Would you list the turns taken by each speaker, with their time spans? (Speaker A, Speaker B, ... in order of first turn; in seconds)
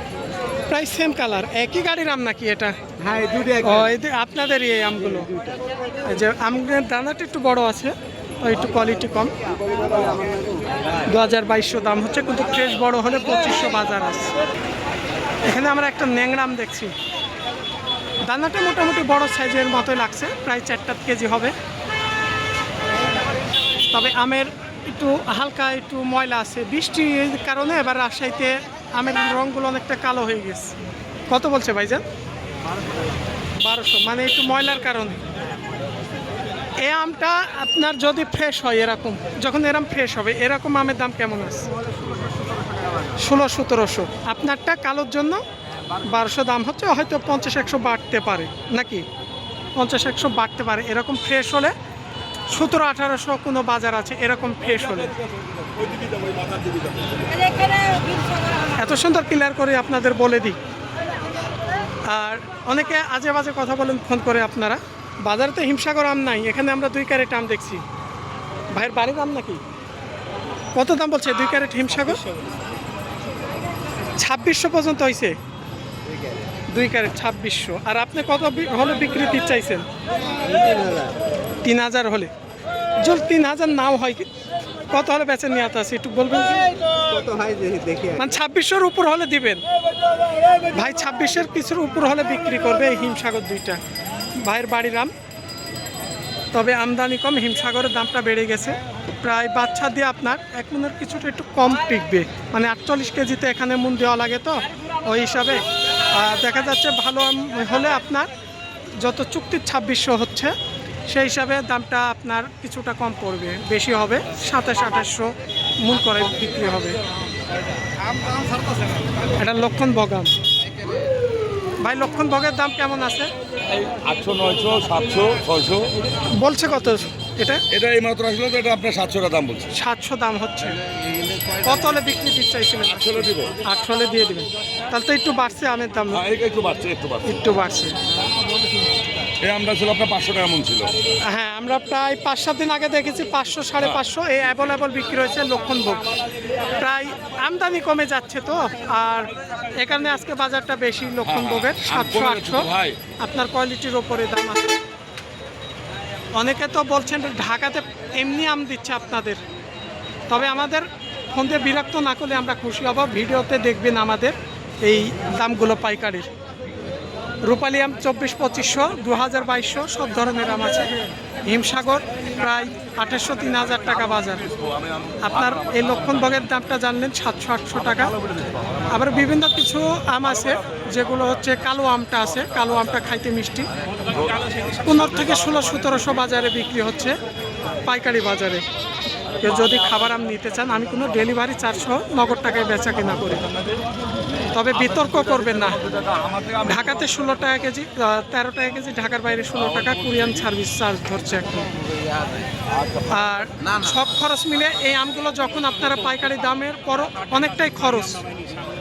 Speaker A: 0.7-2.8, 3.6-5.4, 6.0-9.3, 11.1-14.3, 15.4-16.9, 18.2-21.5, 23.9-30.7, 31.3-32.0, 33.6-35.2, 36.8-41.7, 43.2-45.4, 46.0-49.1, 49.8-51.7, 52.5-55.1, 58.8-60.6, 62.1-67.8, 68.7-69.6, 70.8-72.2, 74.2-75.4, 76.7-79.9, 81.6-82.3, 83.0-84.3, 84.9-86.7, 88.2-89.6, 90.7-93.8, 94.4-95.1, 96.5-108.3, 109.0-110.5, 111.1-117.0, 119.4-120.4, 121.8-123.3, 126.4-127.6, 129.7-130.8, 131.6-136.2, 137.2-138.0, 141.3-146.1, 146.8-152.7, 153.2-154.8, 156.3-159.4, 160.3-166.3, 167.4-170.9, 171.5-174.5, 175.2-178.2, 178.9-183.7, 184.8-187.2, 187.9-188.6, 189.4-193.4, 194.5-195.9, 196.6-201.7, 203.1-208.2
Speaker B: 3.0-3.9, 9.9-10.6, 80.5-81.2, 87.0-88.3
Speaker C: 55.8-56.9, 123.8-125.9, 127.7-129.7, 133.0-133.6, 136.1-137.3, 139.4-140.9, 151.3-153.0, 184.1-184.6, 195.9-196.6